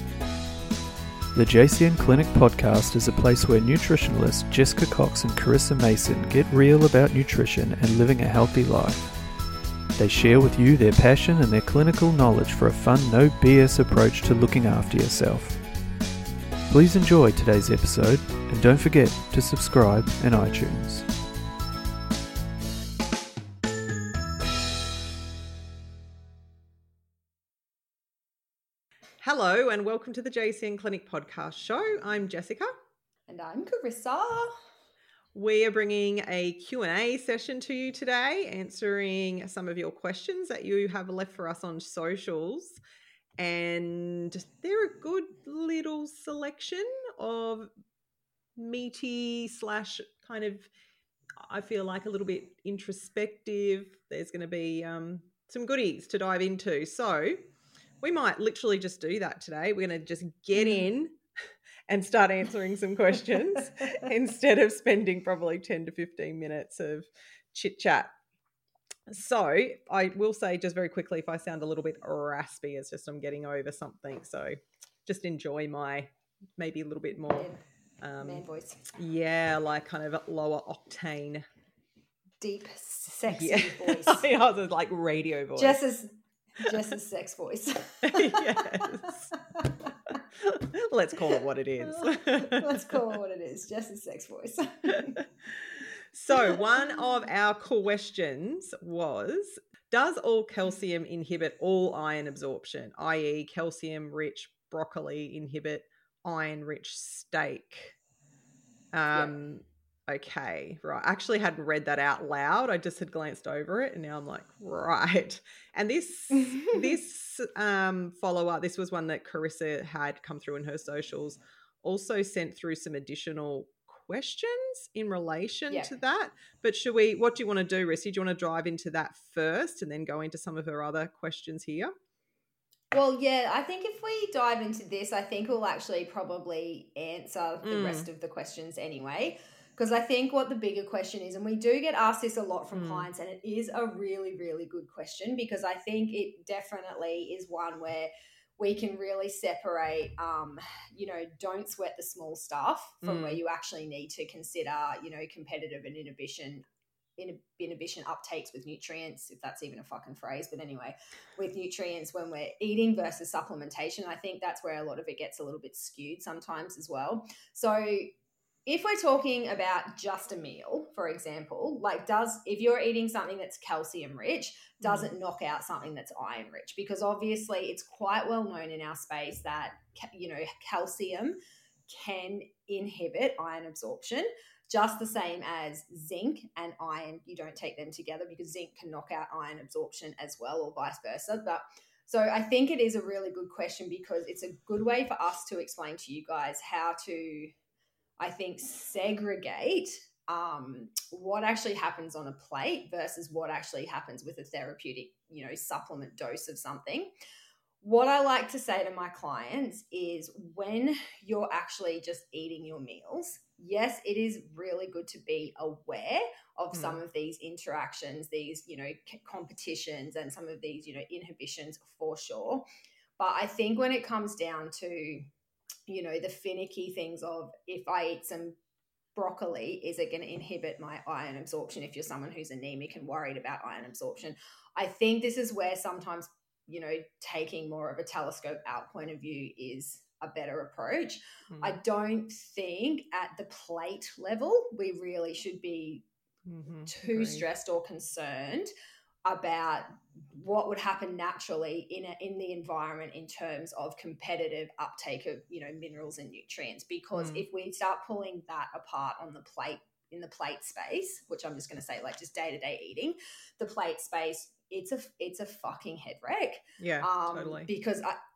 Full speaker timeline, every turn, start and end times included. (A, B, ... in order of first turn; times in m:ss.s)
0:01.3-0:09.2 A
0:10.0-0:15.6 A
0:16.7-0:21.1 A
0:29.2-0:32.7 B
0:33.3-0:34.5 C
0:35.3-0:42.8 B
0:43.4-0:47.7 B
0:48.6-0:50.7 B
0:51.4-0:57.4 B
0:58.0-1:01.2 B
1:01.9-1:08.1 B
1:09.1-1:17.5 B
1:17.3-1:17.6 C
1:18.0-1:21.4 B
1:18.2-1:18.8 C
1:22.4-1:24.3 C
1:23.3-1:25.8 B
1:25.6-1:30.2 C
1:28.0-1:29.3 B
1:30.4-1:33.0 B
1:31.8-1:35.2 C
1:36.1-1:48.0 B
1:48.9-2:11.9 B
1:56.4-1:56.8 C
2:05.7-2:06.0 C
2:12.9-2:36.6 C
2:17.6-2:18.1 B
2:22.7-2:23.1 B
2:33.0-2:33.4 B
2:37.2-2:48.1 C
2:48.6-3:17.5 C
2:54.8-2:55.1 B
3:18.2-3:27.1 C
3:27.8-3:42.6 C
3:36.7-3:37.0 B
3:43.2-3:45.3 C
3:45.9-3:48.6 C
3:49.1-4:06.0 C
4:01.5-4:01.8 B
4:06.4-4:07.4 B
4:06.8-4:08.7 C
4:09.2-4:28.2 C
4:17.1-4:17.4 B
4:26.8-4:27.7 B